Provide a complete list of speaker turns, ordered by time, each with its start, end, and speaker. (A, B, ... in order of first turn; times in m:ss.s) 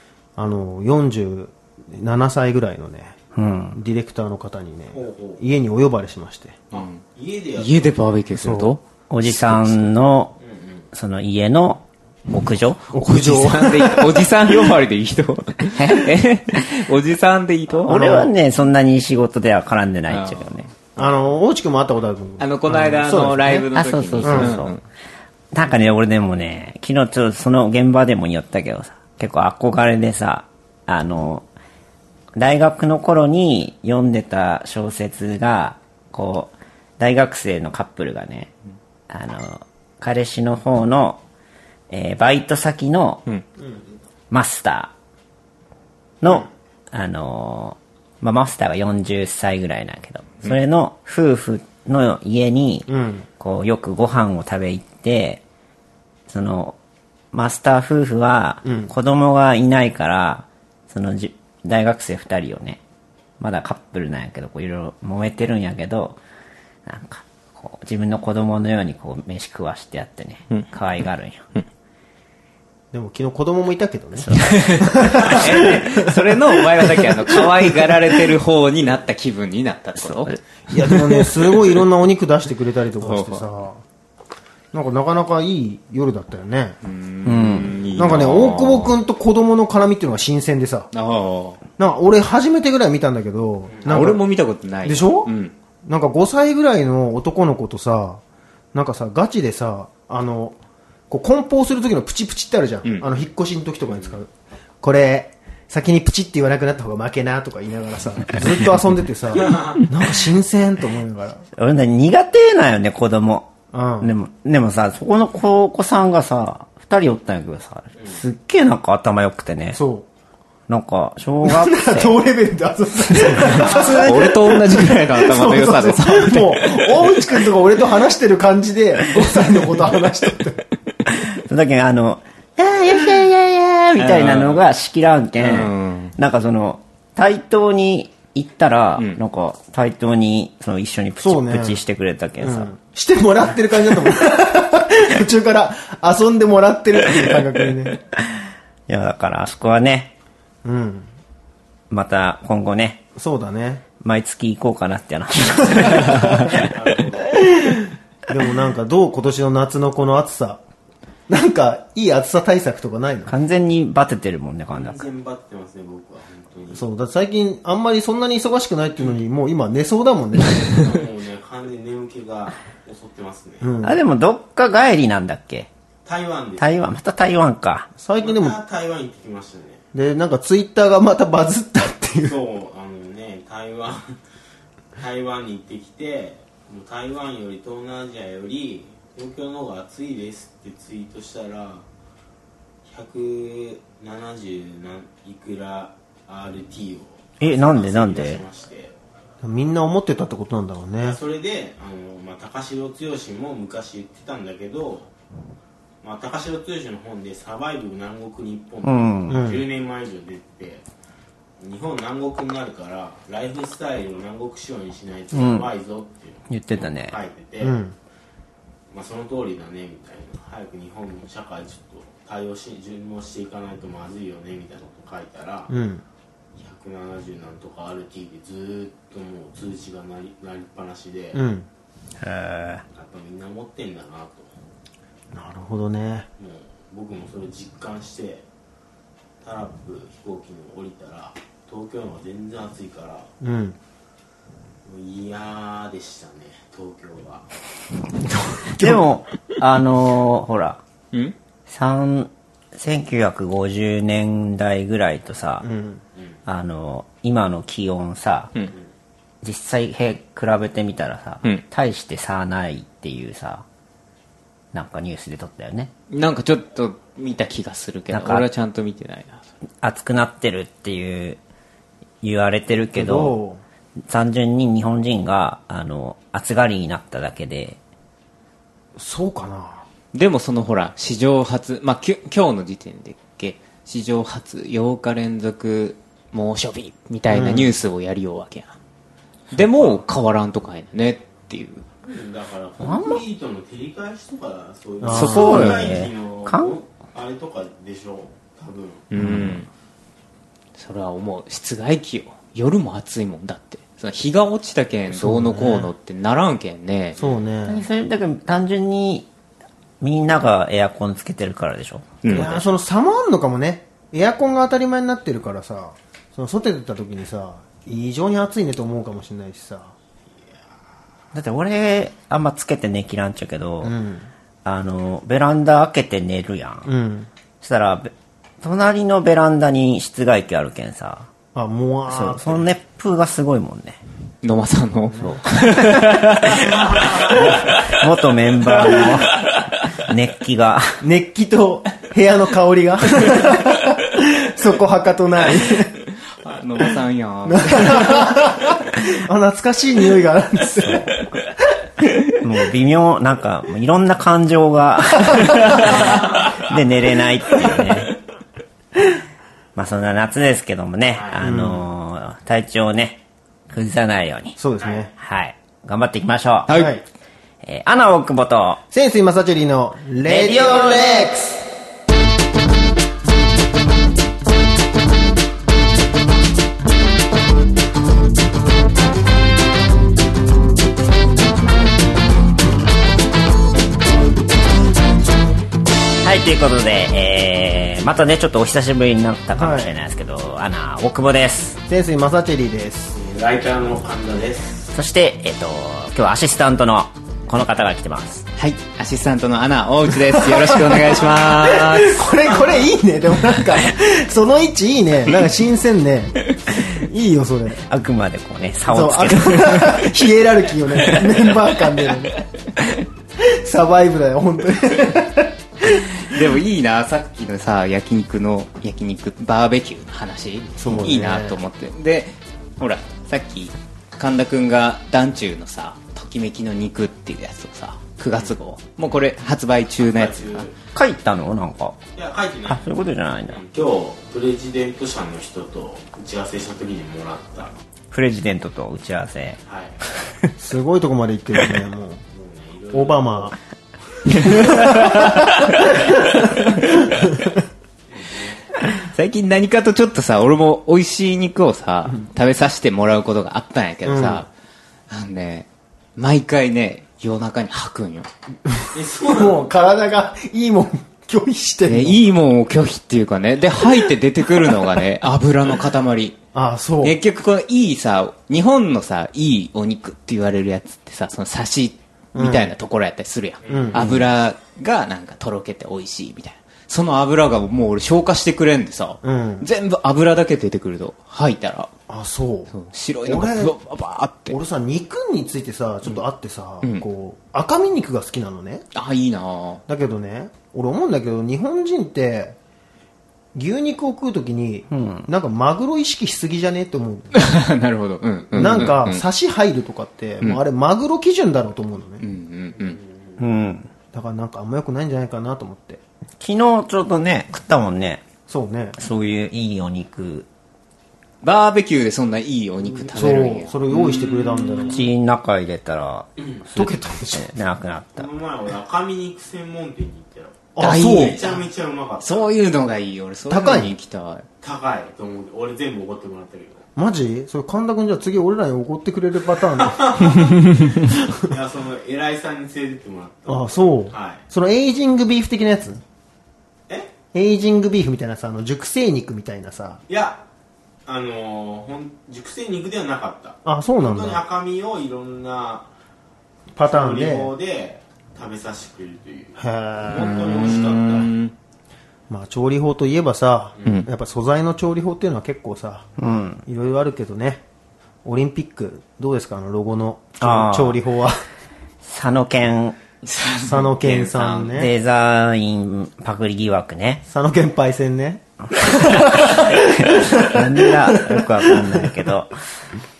0:00.4-0:03.2 A
0:03.3-0:03.8 B
0:03.7-0:06.6 A
0:04.9-0:05.4 C
0:06.7-0:08.0 C
0:06.7-0:07.0 D
0:07.6-0:09.9 D
0:08.3-0:08.7 A
0:09.1-0:10.4 B
0:10.4-0:10.8 C
0:10.9-0:12.9 B
0:12.9-0:14.3 A
0:13.0-0:18.0 D
0:15.7-0:16.1 B
0:17.8-0:18.3 A
0:17.9-0:20.7 B
0:20.1-0:20.6 D
0:21.0-0:23.6 A
0:22.4-0:24.8 D
0:23.5-0:24.7 B
0:24.2-0:24.6 A
0:25.5-0:31.4 B
0:32.4-0:38.5 B
0:39.1-0:41.2 B
0:41.9-0:43.2 B
0:44.3-0:44.9 B
0:46.2-0:52.9 B
0:52.9-0:53.2 A
0:53.4-0:55.4 B
0:56.3-0:56.8 B
0:57.3-1:02.8 B
0:58.6-0:58.9 A
1:03.4-1:06.2 B
1:06.8-1:11.5 B
1:12.9-1:17.9 A
1:14.2-1:14.7 B
1:14.5-1:20.3 D
1:20.0-1:20.4 B
1:20.7-1:23.8 A
1:23.0-1:23.4 D
1:24.7-1:26.8 A
1:26.8-1:28.9 D
1:27.2-1:27.7 B
1:27.9-1:30.9 A
1:30.9-1:31.6 D
1:31.8-1:34.2 A
1:33.7-1:34.0 C
1:33.9-1:35.5 D
1:34.8-1:35.3 A
1:35.8-1:38.2 A
1:38.7-1:40.6 A
1:41.1-1:51.4 A
1:49.4-1:49.8 C
1:51.5-1:59.8 B
1:53.7-1:54.1 A
1:59.7-2:00.0 A
2:00.7-2:02.1 B
2:01.4-2:10.6 A
2:03.4-2:07.1 D
2:03.5-2:04.0 B
2:11.4-2:22.7 B
2:14.0-2:14.6 D
2:15.4-2:16.1 D
2:21.2-2:21.8 A
2:22.4-2:28.0 A
2:28.9-2:30.1 B
2:30.6-2:31.1 A
2:31.9-2:33.0 B
2:33.2-2:33.8 A
2:34.0-2:36.3 B
2:35.7-2:36.6 A
2:36.6-2:37.4 C
2:38.3-2:40.6 A
2:41.3-2:43.3 A
2:43.3-2:45.0 B
2:44.7-2:46.8 C
2:46.7-2:50.9 A
2:50.8-2:53.7 C
2:53.6-2:54.0 A
2:53.8-2:55.7 B
2:56.0-2:56.8 C
2:56.6-2:57.9 B
2:58.0-2:58.6 A
2:58.2-2:59.8 C
2:59.9-3:02.4 A
3:02.2-3:04.2 C
3:05.0-3:11.8 C
3:12.8-3:18.9 C
3:17.4-3:18.4 B
3:19.4-3:21.2 A
3:21.0-3:25.1 C
3:26.0-3:30.8 C
3:28.8-3:29.4 B
3:29.3-3:29.6 A
3:31.6-3:37.8 C
3:35.3-3:35.7 B
3:36.5-3:37.2 B
3:37.6-3:37.9 A
3:38.9-3:45.7 C
3:45.7-3:46.0 A
3:46.6-3:51.4 C
3:51.3-3:51.7 A
3:52.2-3:52.8 B
3:52.9-3:54.5 C
3:55.3-3:56.3 A
3:56.4-3:58.4 C
3:59.4-4:03.3 C
4:03.4-4:03.8 A
4:04.8-4:07.4 C
4:08.2-4:09.0 A
4:08.7-4:10.8 B
4:11.7-4:15.7 B
4:15.6-4:16.0 A
4:16.4-4:18.5 B
4:19.4-4:23.6 B
4:24.7-4:25.9 B
4:26.1-4:29.4 D
4:28.1-4:28.4 B
4:29.8-4:31.4 B
4:32.2-4:33.3 B
4:32.9-4:33.6 A
4:34.1-4:37.8 B
4:39.0-4:39.8 A
4:40.1-4:48.7 D
4:47.3-4:47.8 A
4:49.5-4:51.8 D
4:52.0-4:59.0 C
4:52.8-4:53.2 B
4:55.0-4:55.7 A
4:55.1-4:56.8 B
4:55.1-4:56.0 D
4:59.1-4:59.7 D
4:59.2-4:59.6 B
5:00.8-5:07.2 D
5:05.1-5:05.9 A
5:07.2-5:07.8 A
5:07.6-5:09.3 B
5:10.0-5:12.6 B
5:12.2-5:12.5 D
5:12.3-5:19.9 A
5:21.3-5:23.9 B
5:23.8-5:24.3 A
5:24.6-5:26.9 B
5:26.8-5:27.3 A
5:27.6-5:31.3 B
5:31.5-5:32.6 A
5:32.1-5:34.0 B
5:34.4-5:37.8 D
5:37.0-5:41.0 B
5:41.0-5:45.9 A
5:46.4-5:48.5 D
5:47.4-5:51.2 A
5:52.4-5:58.1 B
5:59.7-6:04.6 B
6:01.1-6:01.5 C
6:01.4-6:01.9 A
6:04.6-6:05.1 A
6:04.8-6:05.0 C
6:05.2-6:06.7 B
6:06.7-6:06.9 D
6:06.7-6:07.0 A
6:07.6-6:08.8 B
6:08.9-6:11.6 A
6:10.2-6:11.3 B
6:26.2-6:31.8 B
6:29.5-6:29.9 A
6:31.9-6:33.2 A
6:33.1-6:34.9 C
6:34.9-6:38.4 B
6:38.6-6:42.3 D
6:40.4-6:47.8 A
6:47.9-6:49.9 B
6:48.9-6:52.4 A
6:53.4-6:56.4 A
6:56.2-7:10.7 D
7:00.8-7:01.6 A
7:10.0-7:10.7 C
7:10.9-7:12.0 B
7:12.2-7:17.7 C
7:12.7-7:13.6 B
7:18.1-7:19.6 B
7:19.6-7:20.0 C
7:20.6-7:22.2 A
7:22.3-7:23.6 C
7:22.9-7:23.5 A
7:24.4-7:25.6 A
7:24.6-7:25.5 D
7:26.4-7:27.6 A
7:28.1-7:28.6 C
7:29.1-7:34.5 D
7:34.0-7:34.4 A
7:35.1-7:38.3 D
7:38.7-7:42.2 A
7:38.9-7:39.7 C
7:41.9-7:46.4 D
7:46.5-7:47.2 A
7:47.0-8:01.9 D
7:52.3-7:52.7 A
7:53.6-7:54.0 C
7:53.7-7:54.3 A
7:59.2-7:59.7 A
8:02.1-8:02.7 A
8:02.7-8:04.6 D
8:03.2-8:03.7 A
8:04.5-8:08.8 A
8:08.9-8:09.8 D
8:09.9-8:12.6 A
8:13.5-8:17.4 A
8:14.9-8:15.3 B
8:17.3-8:19.2 D
8:18.5-8:22.2 A
8:22.2-8:23.0 D
8:22.8-8:23.4 C
8:23.4-8:23.9 B
8:24.1-8:26.0 A
8:26.4-8:28.2 B
8:28.5-8:29.0 A
8:29.0-8:30.4 B
8:31.4-8:34.9 D
8:33.0-8:35.1 A
8:34.9-8:38.3 B
8:36.4-8:36.6 C
8:36.7-8:37.5 A
8:38.2-8:42.5 C
8:40.8-8:41.6 A
8:40.8-8:41.4 D
8:42.2-8:44.4 D
8:43.5-8:43.9 A
8:44.6-8:46.8 C
8:47.0-8:50.0 A
8:49.6-8:54.4 C
8:53.4-8:56.0 A
8:57.3-9:00.0 A
9:00.1-9:00.4 C
9:01.0-9:05.9 C
9:03.6-9:04.4 A
9:06.7-9:07.5 A
9:06.8-9:11.3 C
9:09.6-9:10.5 A
9:10.1-9:11.5 D
9:12.3-9:16.1 A
9:16.2-9:16.6 B
9:16.6-9:17.6 A
9:18.2-9:21.4 A
9:20.4-9:21.0 B
9:22.0-9:23.0 B
9:23.2-9:24.8 D
9:23.6-9:24.9 A
9:24.7-9:27.2 B
9:27.2-9:32.1 A
9:29.2-9:32.5 B